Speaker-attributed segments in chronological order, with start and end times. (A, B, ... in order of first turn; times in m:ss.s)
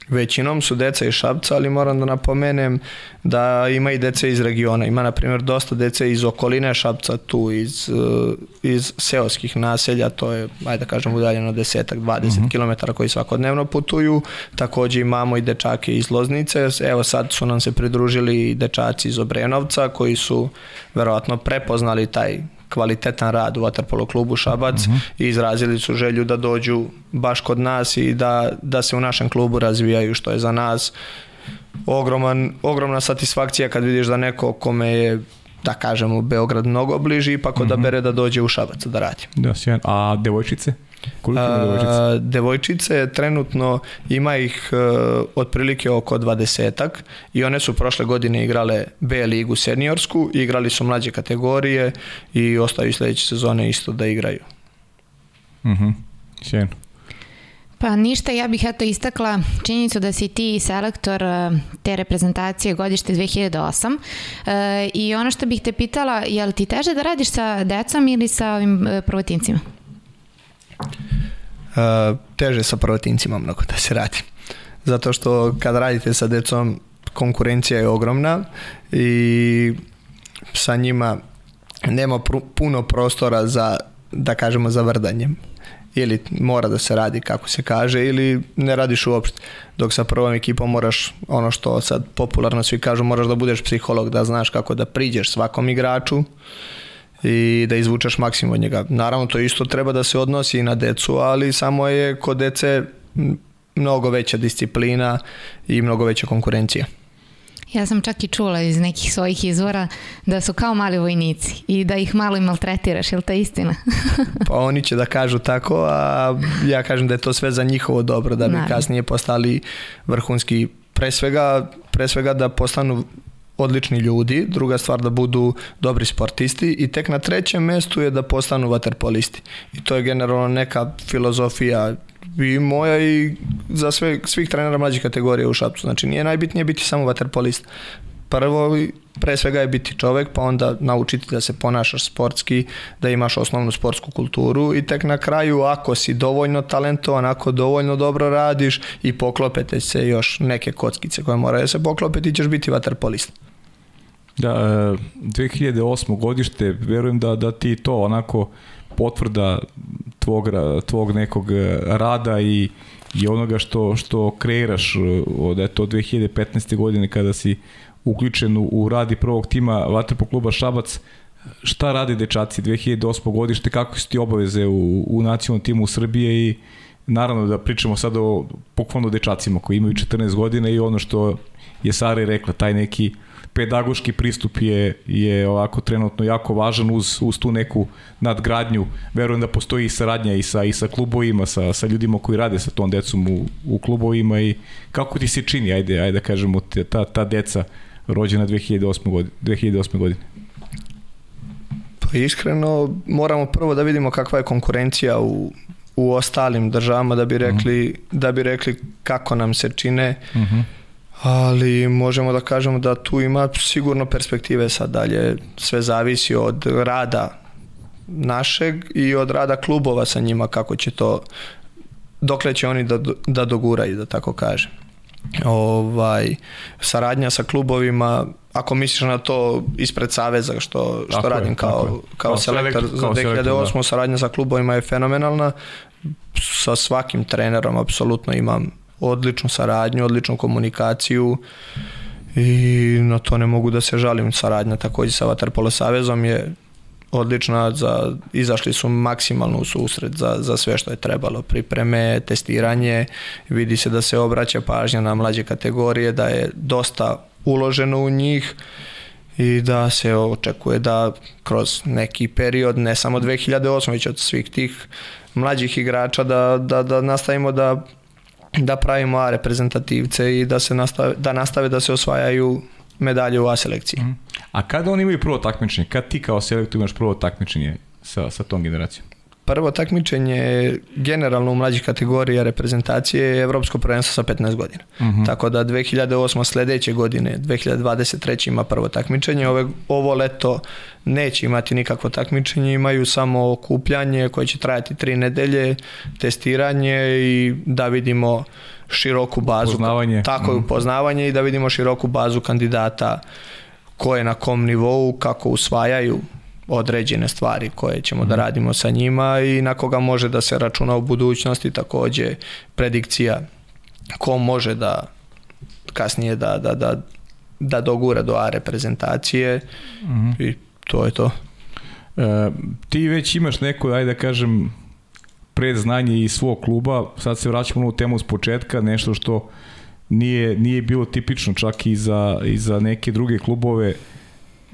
0:00.1-0:30.9 A
0:31.8-0:39.3 A
0:39.4-0:42.0 B
0:41.3-0:54.4 A
0:55.6-0:56.8 B
0:57.8-1:09.6 C
1:11.7-1:14.3 A
1:14.8-1:19.8 A
1:20.5-1:21.2 A
1:21.8-1:25.4 A
1:25.9-1:36.3 A
1:37.2-1:46.9 A
1:47.7-1:54.4 C
1:54.4-2:03.1 A
1:58.5-1:58.8 C
2:03.6-2:17.7 A
2:18.3-2:33.3 A
2:34.4-2:51.0 B
2:51.6-3:20.2 B
3:22.0-3:30.3 A
3:30.3-3:30.7 B
3:31.2-3:37.3 A
3:38.1-3:41.2 A
3:42.2-3:44.7 A
3:45.4-3:55.5 A
3:51.1-3:53.7 B
3:56.3-4:01.4 A
4:02.3-4:06.5 A
4:07.1-4:18.6 A
4:19.4-4:27.8 A
4:28.6-4:34.1 A
4:34.0-4:39.0 B
4:39.5-5:03.2 A
4:45.0-4:45.3 B
4:59.5-5:00.6 B
5:04.0-5:13.4 A
5:14.2-5:15.1 A
5:15.9-5:17.0 A
5:17.6-5:19.6 A
5:20.1-5:20.4 B
5:20.3-5:21.4 A
5:22.2-5:24.7 B
5:25.5-5:29.5 B
5:30.1-5:34.0 B